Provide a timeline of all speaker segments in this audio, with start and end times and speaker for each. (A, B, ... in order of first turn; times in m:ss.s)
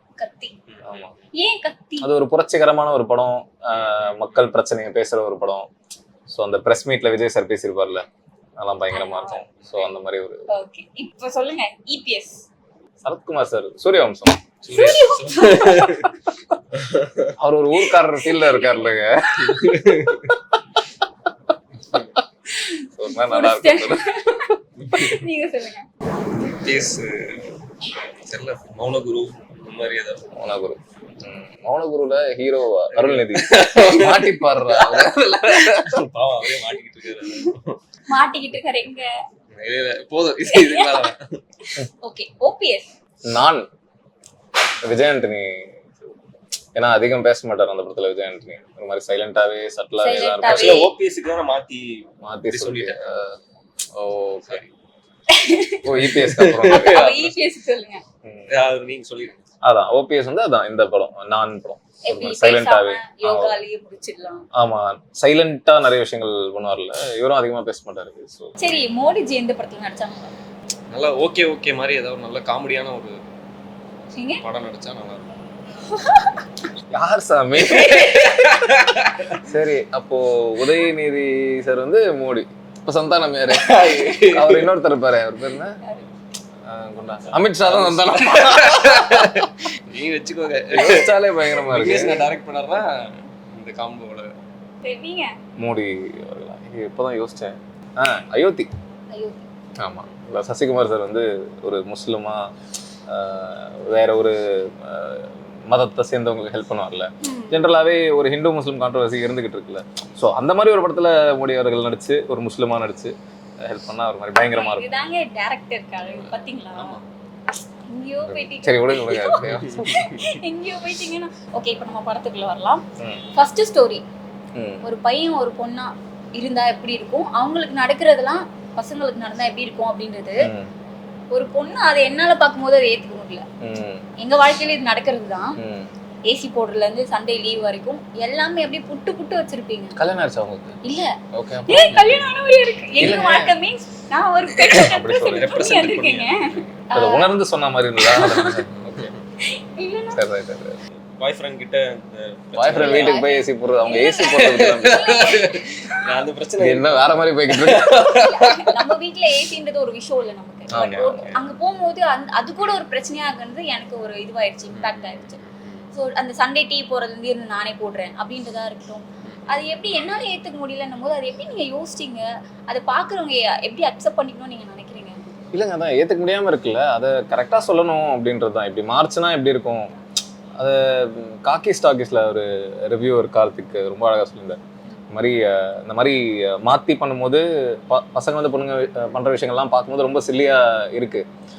0:00.2-0:00.6 A
0:00.7-0:01.1 B
0:00.8-0:01.1 C
0:01.4-0:02.1 A
0:02.0-0:05.7 C
0:03.7-0:04.3 B
0:06.3-0:08.0 C
0:08.6-0:10.5 C
0:08.9-0:09.4 A
0:09.6-0:09.9 B
0:10.5-0:12.4 A
0:13.0-0:14.4 C
0:14.6-0:16.1 B
0:14.7-0:16.1 A
0:16.7-0:17.3 B
0:17.4-0:20.3 C
0:18.0-0:18.9 A
0:19.5-0:20.3 B
0:22.5-0:25.9 A
0:23.0-0:24.0 C
0:26.5-0:30.3 B
0:30.3-0:36.0 C
0:32.9-0:34.9 B
0:35.6-0:37.8 B
0:38.1-0:39.1 A
0:39.5-0:41.4 B
0:40.5-0:41.1 A
0:41.6-0:42.9 A
0:43.3-0:43.6 C
0:44.8-0:45.8 C
0:46.7-0:50.8 C
0:50.0-0:50.9 A
0:50.4-0:53.1 B
0:52.2-0:53.4 C
0:54.0-0:54.6 C
0:55.3-0:55.8 A
0:55.8-0:57.3 C
0:56.0-0:57.3 B
0:56.6-0:58.0 A
0:58.5-0:59.4 B
0:59.6-1:03.6 C
1:02.0-1:04.4 A
1:04.5-1:08.7 C
1:08.6-1:10.3 A
1:10.9-1:13.2 B
1:14.1-1:14.4 A
1:14.4-1:15.4 B
1:15.9-1:16.4 A
1:16.9-1:18.4 C
1:17.6-1:19.4 B
1:17.9-1:18.3 A
1:19.4-1:25.8 C
1:23.5-1:24.7 B
1:26.7-1:29.5 C
1:27.3-1:34.3 B
1:30.7-1:32.3 C
1:34.8-1:35.3 A
1:35.6-1:38.7 C
1:39.1-1:39.4 A
1:39.8-1:42.4 C
1:43.1-1:55.0 C
1:47.2-1:47.7 A
1:54.4-1:57.0 A
1:56.1-1:57.1 B
1:57.9-2:02.8 A
1:58.2-2:00.1 C
1:59.5-2:00.2 B
2:03.0-2:03.2 C
2:03.3-2:04.0 A
2:04.6-2:04.8 C
2:04.8-2:10.4 A
2:10.4-2:10.7 C
2:11.3-2:13.4 A
2:13.6-2:14.0 C
2:14.2-2:15.6 A
2:15.6-2:15.9 C
2:16.3-2:20.0 A
2:20.0-2:20.8 C
2:20.8-2:21.1 A
2:21.3-2:22.2 C
2:21.7-2:27.3 A
2:21.9-2:22.3 B
2:23.0-2:23.5 C
2:24.7-2:25.6 C
2:25.2-2:26.8 B
2:26.9-2:28.8 C
2:28.0-2:28.7 A
2:28.8-2:29.2 B
2:29.5-2:30.2 A
2:30.1-2:30.8 C
2:31.2-2:33.2 B
2:32.6-2:35.0 C
2:32.7-2:36.0 A
2:34.2-2:38.8 B
2:36.6-2:38.2 C
2:37.9-2:45.4 A
2:40.7-2:41.3 C
2:40.7-2:41.4 B
2:44.7-2:45.9 B
2:45.9-2:55.4 A
2:55.5-2:59.9 C
3:00.6-3:04.6 C
3:05.1-3:11.2 C